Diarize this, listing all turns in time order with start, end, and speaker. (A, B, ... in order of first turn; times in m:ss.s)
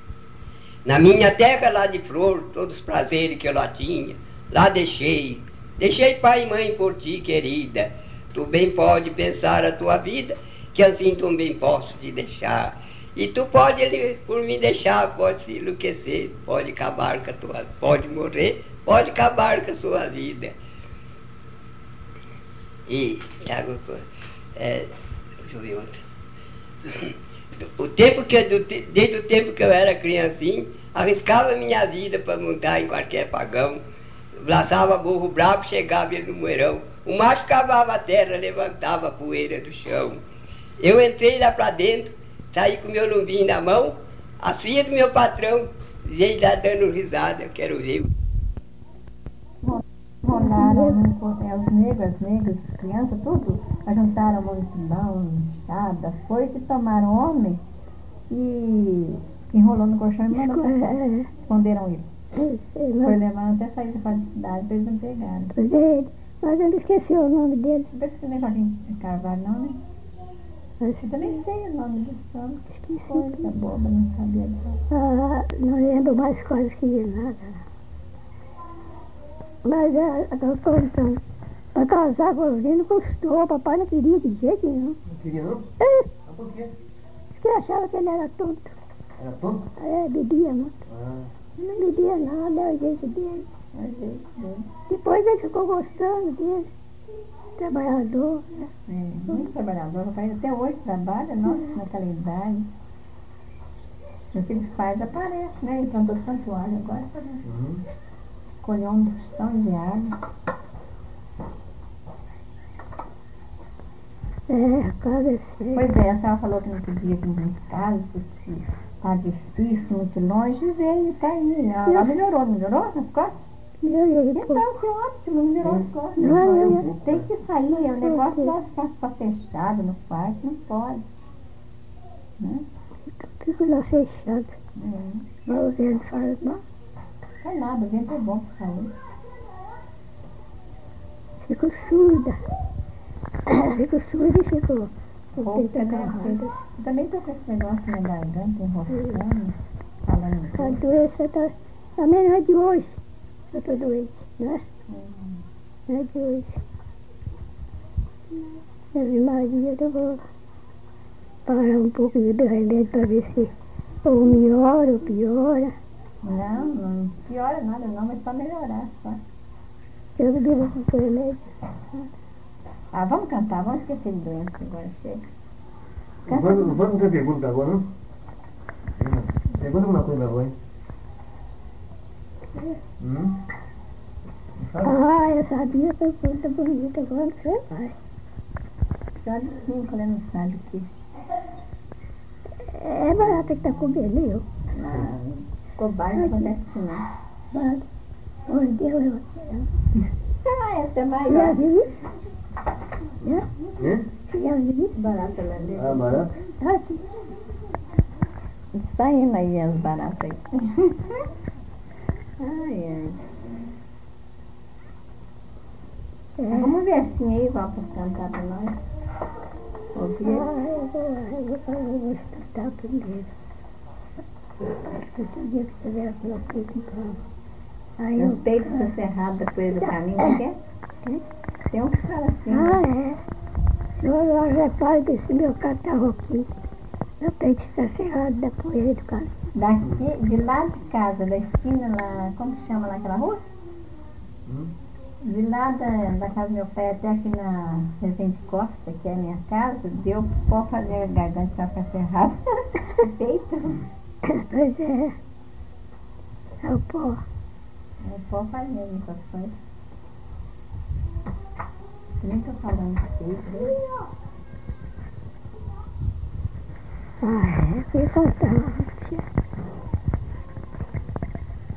0:00.8-0:20.5 A
0:22.9-0:24.0 A
0:24.6-0:24.9 A
0:25.4-0:26.0 A
0:26.8-0:33.8 A
0:34.4-0:40.2 A
0:40.8-0:48.1 A
0:49.6-0:57.6 B
0:50.3-0:51.0 C
0:58.3-1:00.8 B
1:00.3-1:01.3 C
1:01.4-1:02.1 B
1:02.4-1:03.2 C
1:03.0-1:05.5 B
1:05.5-1:07.9 C
1:07.9-1:09.8 B
1:10.8-1:11.4 C
1:11.0-1:14.8 B
1:12.7-1:13.5 C
1:14.9-1:17.6 C
1:19.6-1:21.2 C
1:21.8-1:25.0 C
1:25.1-1:25.6 D
1:25.8-1:26.1 C
1:26.3-1:26.7 D
1:27.3-1:28.7 C
1:29.2-1:29.7 D
1:29.8-1:30.8 C
1:30.9-1:31.3 D
1:31.6-1:33.5 C
1:33.8-1:34.7 B
1:34.9-1:36.7 C
1:37.6-1:38.7 C
1:38.9-1:42.7 B
1:44.3-1:47.4 B
1:47.4-1:47.8 D
1:48.6-1:50.2 B
1:54.5-1:55.8 C
1:55.8-2:03.4 B
2:01.9-2:02.2 C
2:03.8-2:04.6 C
2:04.4-2:06.3 B
2:05.7-2:07.2 D
2:06.2-2:06.9 C
2:07.0-2:11.0 B
2:08.0-2:08.5 C
2:12.4-2:12.7 B
2:13.1-2:14.6 C
2:14.8-2:15.2 B
2:15.5-2:16.6 C
2:17.4-2:18.9 B
2:21.4-2:22.4 C
2:23.5-2:26.5 C
2:25.4-2:29.6 B
2:28.9-2:29.2 C
2:30.1-2:30.8 B
2:30.6-2:33.0 C
2:33.5-2:34.6 C
2:34.9-2:35.4 B
2:35.9-2:36.6 C
2:38.9-2:40.2 C
2:41.5-2:43.5 C
2:44.0-2:45.8 C
2:46.2-2:49.2 B
2:50.2-2:52.1 C
2:52.9-2:55.2 B
2:56.3-2:57.8 D
2:56.3-2:56.9 B
2:59.0-3:00.5 D
3:02.5-3:02.8 C
3:03.0-3:03.4 D
3:04.6-3:05.0 D
3:04.8-3:07.9 C
3:09.2-3:10.9 B
3:12.6-3:14.5 C
3:14.7-3:17.1 B
3:16.2-3:16.5 C
3:17.5-3:17.8 C
3:18.5-3:19.7 C
3:20.4-3:21.6 B
3:21.3-3:21.9 C
3:23.2-3:23.5 C
3:23.8-3:24.1 D
3:24.3-3:25.0 C
3:25.0-3:26.3 B
3:25.8-3:26.3 D
3:26.6-3:27.1 C
3:28.7-3:31.2 B
3:32.4-3:33.3 B
3:36.4-3:36.8 C
3:36.5-3:38.8 B
3:39.9-3:40.5 B
3:40.2-3:43.3 C
3:44.9-3:47.2 C
3:48.0-3:48.9 C
3:48.2-3:50.6 B
3:49.8-3:50.4 C
3:51.7-3:52.8 B
3:52.5-3:53.2 C
3:54.0-3:56.5 C
3:57.2-3:59.3 C
3:59.6-4:03.4 B
4:04.5-4:04.7 D
4:05.2-4:13.8 B
4:14.3-4:15.2 C
4:16.6-4:17.2 C
4:18.0-4:19.6 B
4:22.2-4:23.8 B
4:27.2-4:29.2 C